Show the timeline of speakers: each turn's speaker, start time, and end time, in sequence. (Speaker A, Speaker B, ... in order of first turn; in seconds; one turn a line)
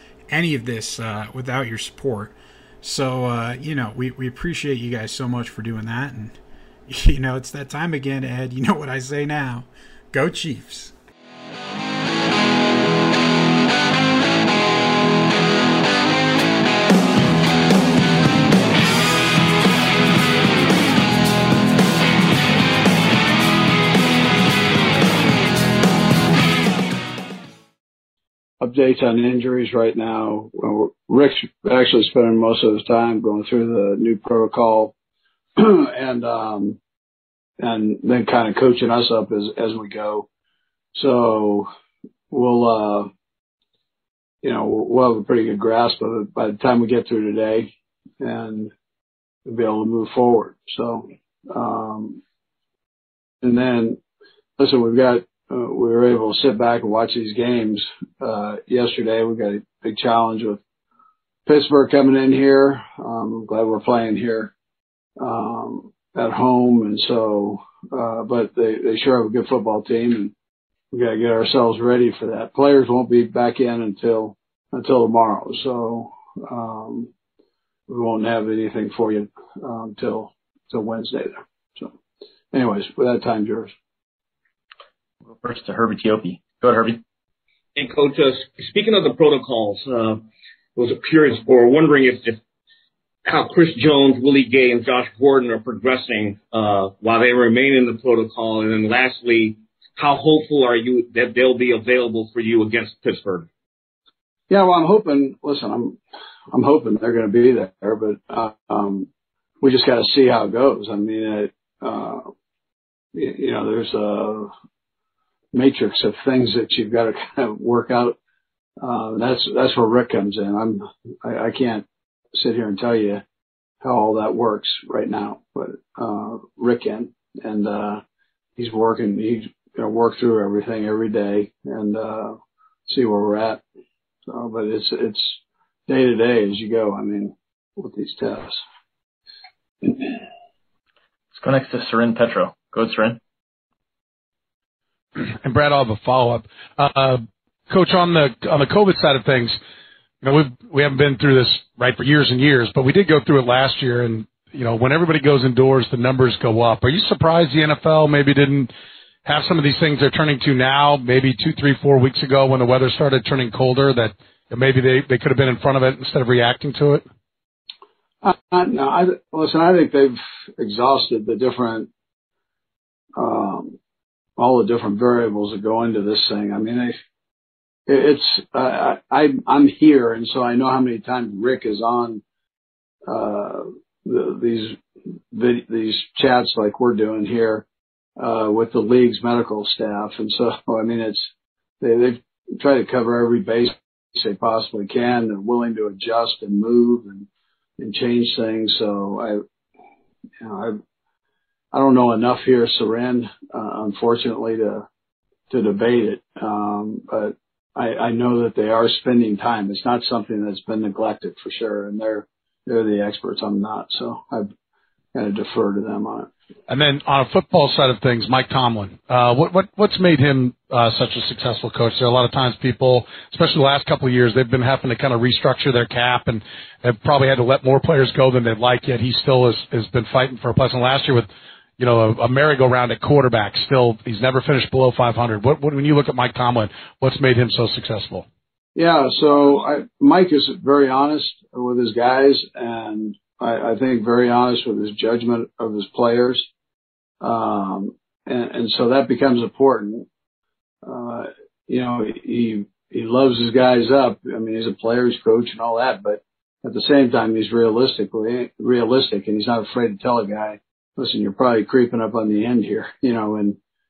Speaker A: 0.3-10.9
Speaker B: 28.6-34.9
Speaker B: 35.6-36.8
Speaker B: 37.6-40.3
Speaker B: 41.0-41.7
Speaker B: 42.3-43.1
Speaker B: 44.4-48.7
Speaker B: 49.5-52.2
Speaker B: 53.4-54.0
Speaker B: 54.6-60.6
Speaker B: 61.5-64.5
Speaker B: 65.2-70.3
Speaker B: 70.9-77.1
Speaker B: 77.9-81.9
Speaker B: 82.5-83.7
Speaker C: 85.2-87.0
Speaker D: 87.8-90.2
Speaker D: 90.8-92.4
Speaker D: 93.3-103.5
Speaker B: 104.5-106.0
Speaker B: 106.5-109.1
Speaker B: 109.6-112.3
Speaker B: 113.1-114.5
Speaker B: 115.5-118.2
Speaker B: 118.8-123.2
Speaker B: 123.8-128.0
Speaker B: 128.6-133.6
Speaker B: 134.3-138.6
Speaker B: 139.8-140.2
Speaker C: 141.3-143.2
Speaker E: 145.2-149.6
Speaker E: 150.2-158.7
Speaker E: 159.2-167.1
Speaker B: 168.2-171.9
Speaker B: 173.2-173.8
Speaker B: 174.4-177.0
Speaker B: 177.9-182.2
Speaker B: 183.1-187.7
Speaker B: 188.2-191.3
Speaker B: 191.8-199.4
Speaker B: 200.4-200.8
Speaker B: 201.7-204.9
Speaker B: 205.5-214.5
Speaker B: 215.1-216.3
Speaker E: 216.7-238.3
Speaker B: 238.8-246.5
Speaker B: 247.2-250.1
Speaker B: 250.8-263.6